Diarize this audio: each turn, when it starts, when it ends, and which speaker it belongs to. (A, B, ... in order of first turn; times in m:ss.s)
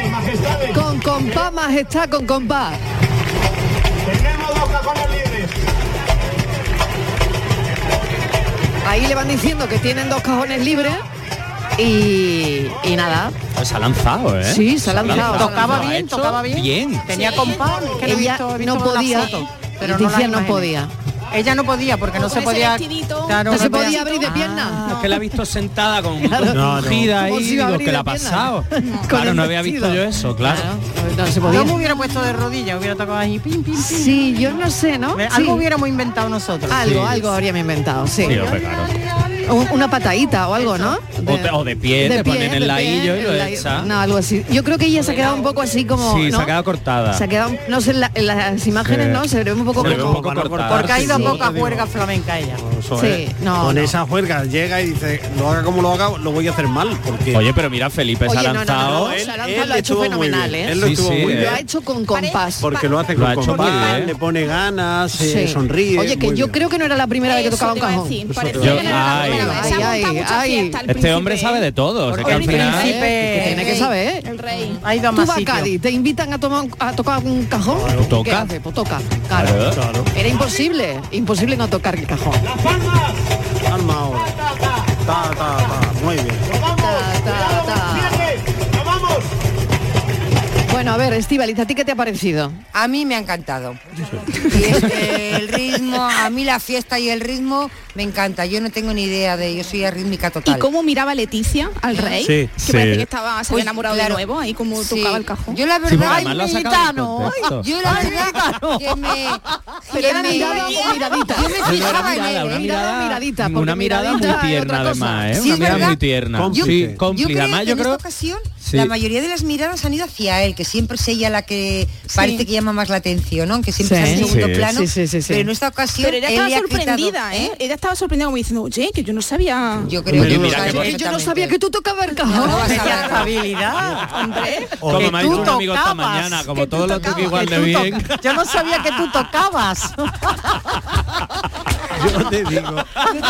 0:00.7-0:02.8 A
0:08.8-0:11.0 A
0:11.8-0:13.4 A
0:13.6-0:17.2 B
0:14.4-0:15.9 A
0:15.0-0:20.7 C
0:17.1-0:17.6 D
0:18.0-0:20.9 A
0:21.3-0:25.0 C
0:22.2-0:25.1 D
0:23.5-0:24.9 A
0:24.6-0:30.7 B
0:26.2-0:31.8 A
0:26.5-0:27.1 E
0:28.8-0:29.1 D
0:31.4-0:34.5 C
0:33.8-0:35.6 A
0:35.2-0:36.9 C
0:36.7-0:38.6 A
0:36.7-0:37.2 B
0:38.2-0:38.9 B
0:39.5-0:46.5 A
0:41.2-0:43.9 B
0:45.9-0:47.3 B
0:47.1-0:50.2 A
0:48.8-0:51.3 B
0:49.8-0:52.0 E
0:50.7-0:52.6 C
0:50.7-0:51.4 A
0:52.6-0:57.5 E
0:53.0-0:53.9 A
0:57.3-0:59.2 B
0:58.2-1:02.7 A
0:58.9-1:01.6 E
1:00.8-1:01.6 B
1:02.1-1:04.1 D
1:02.6-1:06.6 E
1:03.2-1:04.1 B
1:05.2-1:08.2 A
1:07.2-1:12.9 D
1:08.3-1:09.8 E
1:08.6-1:09.7 B
1:08.8-1:10.8 A
1:10.9-1:13.0 B
1:12.2-1:13.9 C
1:12.2-1:14.2 A
1:13.5-1:14.8 D
1:14.8-1:15.7 C
1:15.1-1:19.6 A
1:17.7-1:18.1 E
1:18.0-1:18.5 B
1:19.3-1:19.8 B
1:19.4-1:20.1 E
1:20.1-1:22.4 A
1:23.7-1:24.4 E
1:25.0-1:26.6 E
1:26.8-1:28.4 A
1:30.7-1:32.6 A
1:32.7-1:33.8 F
1:34.4-1:40.7 F
1:40.4-1:45.6 D
1:42.2-1:43.0 E
1:43.5-1:44.2 F
1:44.8-1:46.4 F
1:45.9-1:47.7 B
1:45.9-1:48.9 C
1:47.6-1:52.8 F
1:49.9-1:55.8 A
1:50.0-1:51.1 D
1:51.6-1:58.0 B
1:55.4-2:07.6 F
1:55.6-1:57.0 E
1:58.6-1:59.0 B
2:03.8-2:05.5 A
2:04.2-2:04.7 B
2:06.0-2:09.9 D
2:09.8-2:11.6 F
2:10.1-2:10.7 E
2:10.1-2:10.9 B
2:10.5-2:13.2 A
2:12.3-2:13.3 F
2:12.4-2:20.3 C
2:14.2-2:14.7 D
2:14.8-2:15.6 E
2:14.9-2:18.2 B
2:16.9-2:17.3 D
2:21.9-2:23.0 E